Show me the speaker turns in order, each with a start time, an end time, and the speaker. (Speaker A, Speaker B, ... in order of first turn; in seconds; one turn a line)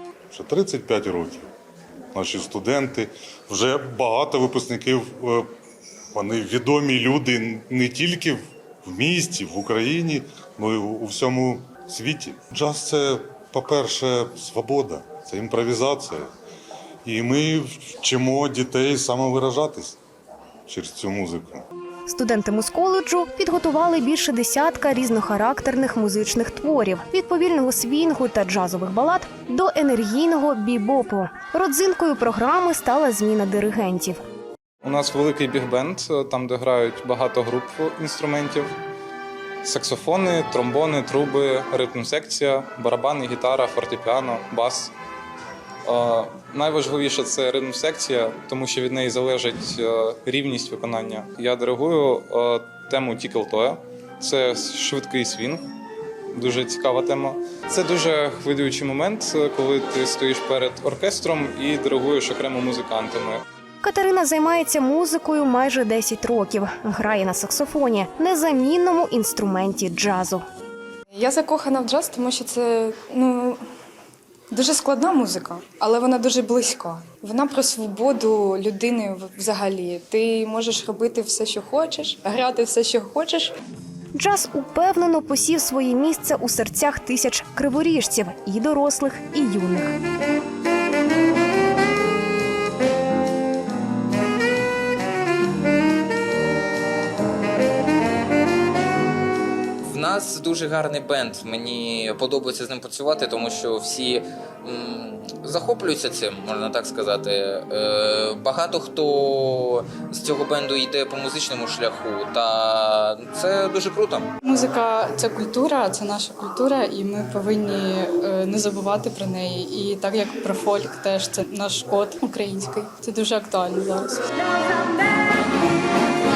Speaker A: 0.3-1.5
Speaker A: 2.1-5.5
Speaker A: 6.1-16.3
Speaker A: 17.0-20.0
Speaker A: 20.7-21.6
Speaker B: 22.1-34.2
Speaker C: 34.8-38.7
Speaker C: 39.6-44.9
Speaker C: 45.8-55.6
Speaker C: 56.3-63.4
Speaker B: 63.8-70.4
Speaker D: 71.1-73.6
Speaker D: 74.5-83.5
Speaker B: 84.1-90.0
Speaker E: 99.9-114.3
Speaker F: 114.4-124.2